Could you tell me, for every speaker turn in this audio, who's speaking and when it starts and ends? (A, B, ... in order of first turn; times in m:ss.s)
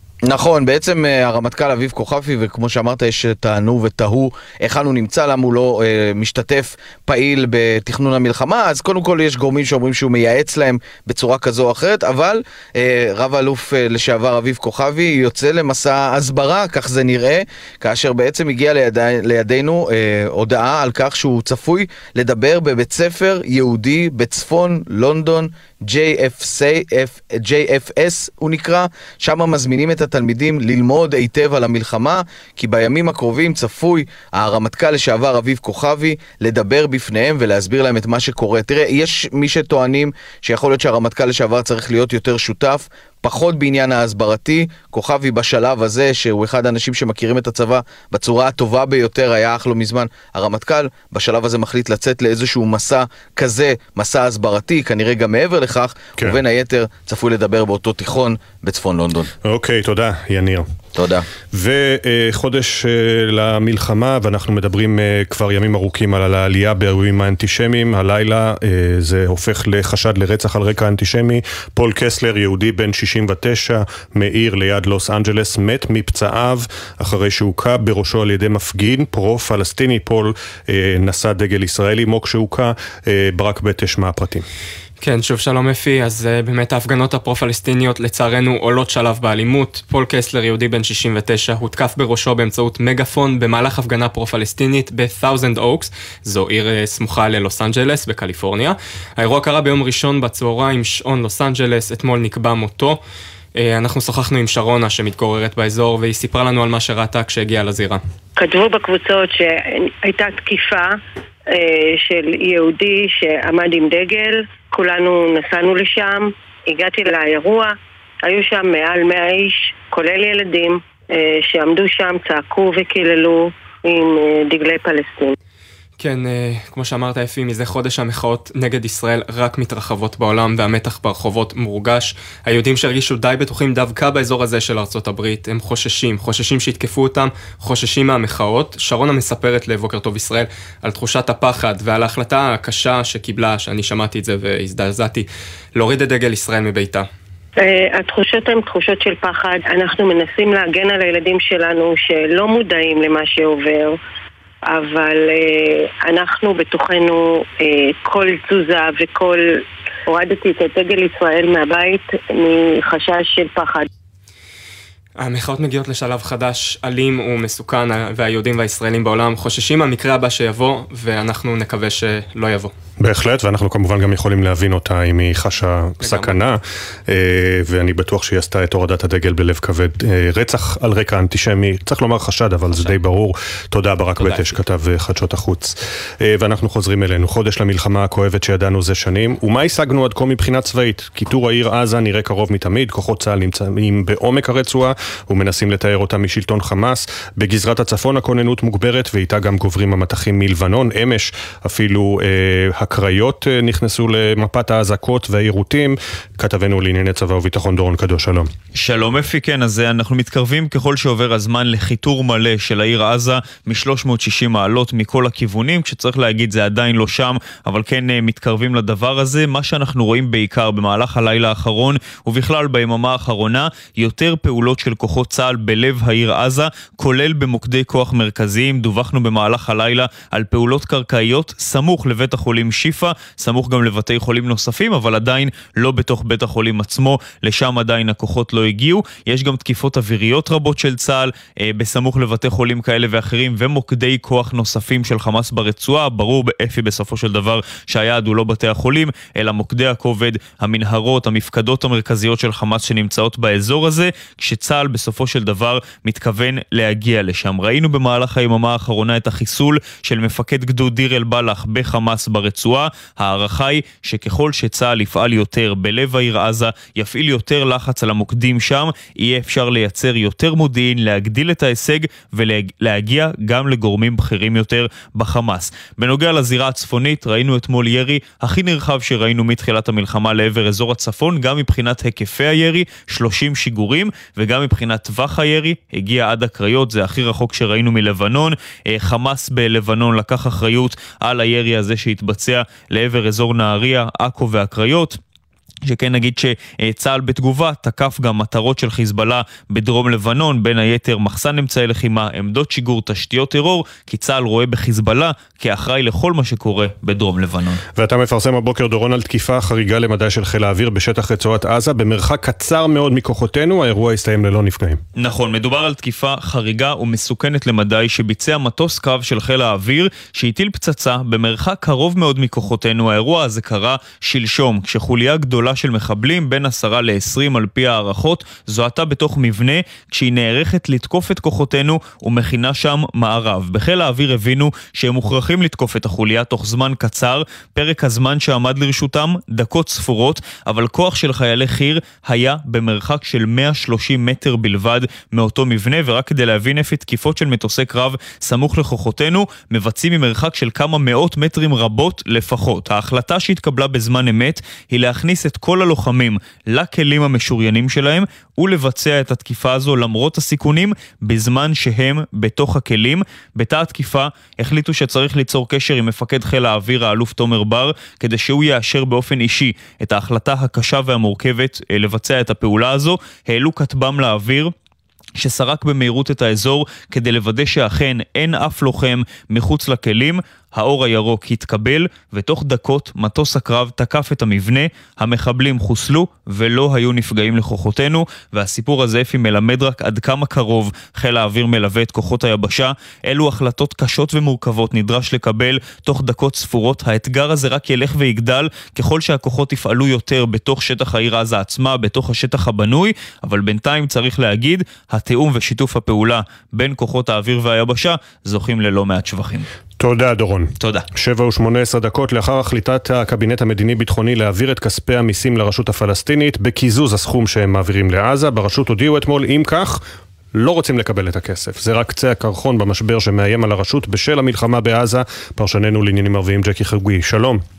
0:00.3-0:59.3 A
0:59.4-1:00.6 B
1:01.0-1:01.2 A
1:01.5-1:24.4 B
1:25.0-1:43.0 C
1:43.5-1:48.0 C
1:48.4-1:50.9 D
1:51.5-2:05.4 D
2:06.0-2:27.1 C
2:27.6-2:34.0 D
2:34.7-2:39.4 D
2:40.1-2:43.9 D
2:45.2-2:52.7 C
2:53.0-3:28.5 B
2:56.0-2:56.4 C
3:28.7-4:55.2 E
4:55.8-5:07.8 E
5:08.0-5:15.0 B
5:15.2-6:14.7 E
6:15.4-6:49.7 E
6:50.0-7:00.0 B
6:50.8-6:51.0 E
7:00.5-7:07.6 B